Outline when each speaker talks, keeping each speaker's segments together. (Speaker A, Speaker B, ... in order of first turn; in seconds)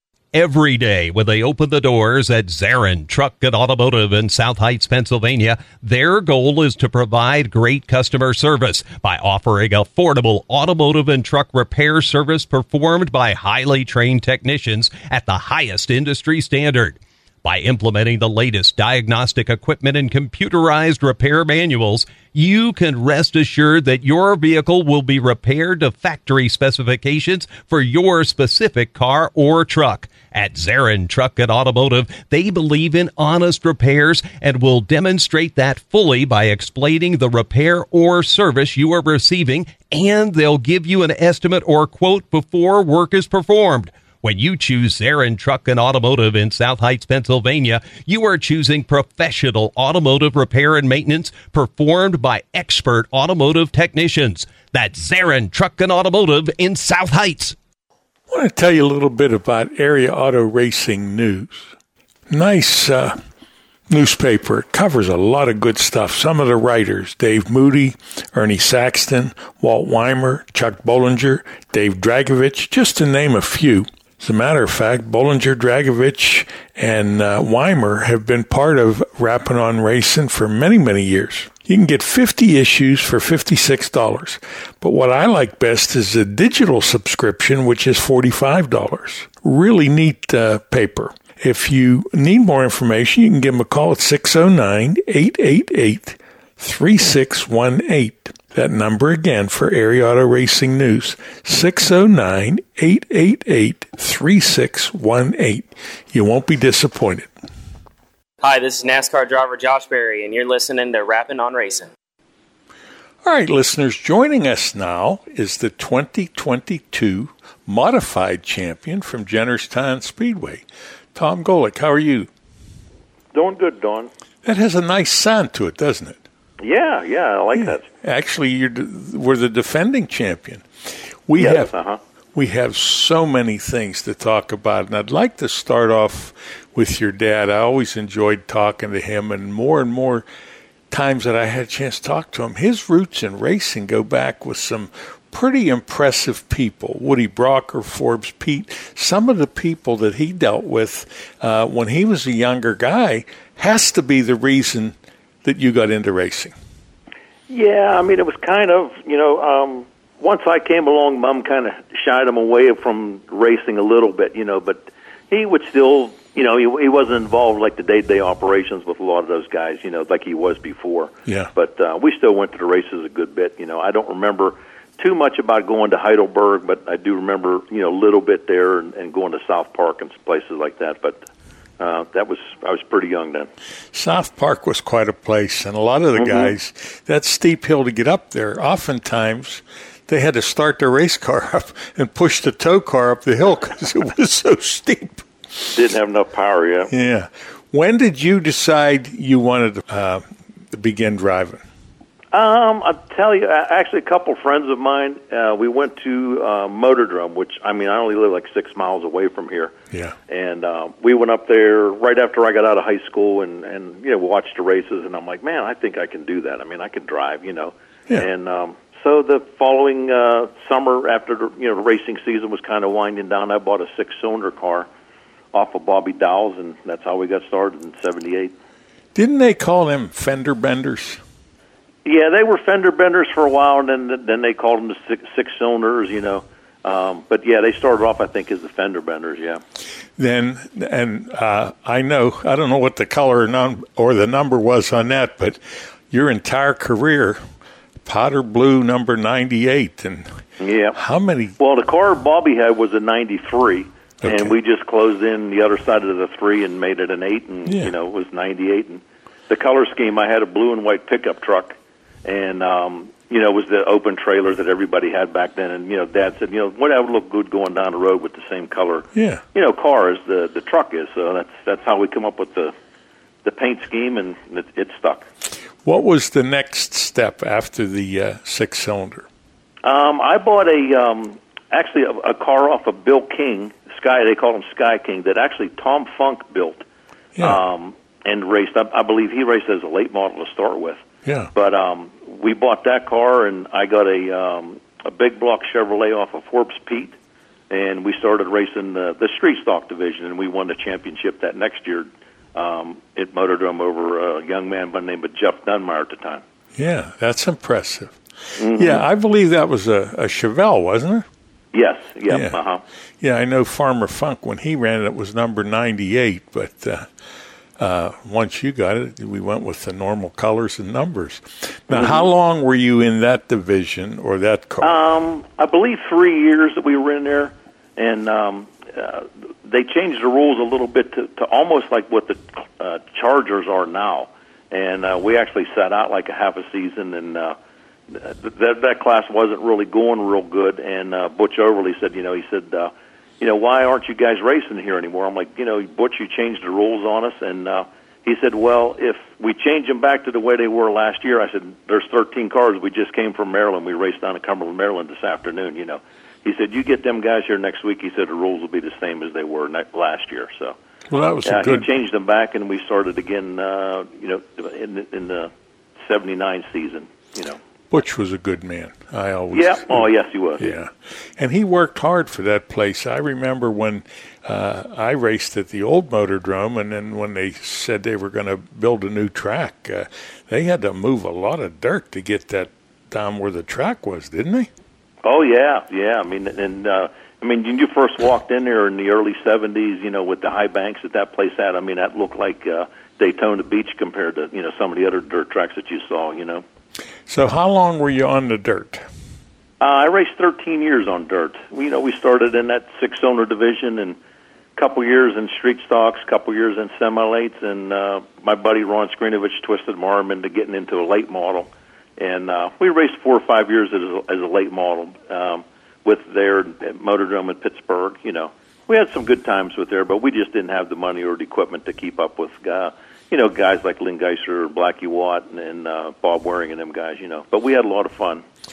Speaker A: 0.3-57.5
Speaker B: 58.3-61.7, 62.3-63.2, 63.9-107.3, 113.2-120.6, 121.1-122.3, 124.4-126.2, 127.5-130.6, 131.3-131.7, 132.3-140.2, 140.9-156.5, 171.2-171.5, 183.9-195.3, 196.9-201.6, 229.1-231.2, 240.2-247.4, 248.0-250.4, 250.9-251.6, 254.2-254.5, 257.7-257.9, 269.1-269.4, 275.8-279.2, 291.2-291.5, 306.8-308.2, 308.8-311.2, 312.3-312.6, 313.2-317.1, 317.8-324.9, 361.1-361.9, 367.9-384.7, 397.3-399.0
Speaker C: 108.4-111.9
Speaker D: 123.3-124.1, 126.6-127.9, 131.3-132.0, 157.5-181.2, 181.8-183.5, 186.2-186.5, 195.7-196.9, 202.3-209.7, 210.3-224.9, 225.5-228.5, 232.0-239.6, 250.6-251.0, 251.6-272.7, 273.4-275.2, 279.8-286.8, 287.4-291.0, 291.5-297.1, 297.7-306.4, 308.6-309.0, 311.7-312.8, 321.9-322.2, 324.8-337.6, 338.1-360.8, 361.4-367.6, 369.5-370.7, 385.2-396.6, 399.8-404.2, 404.8-428.4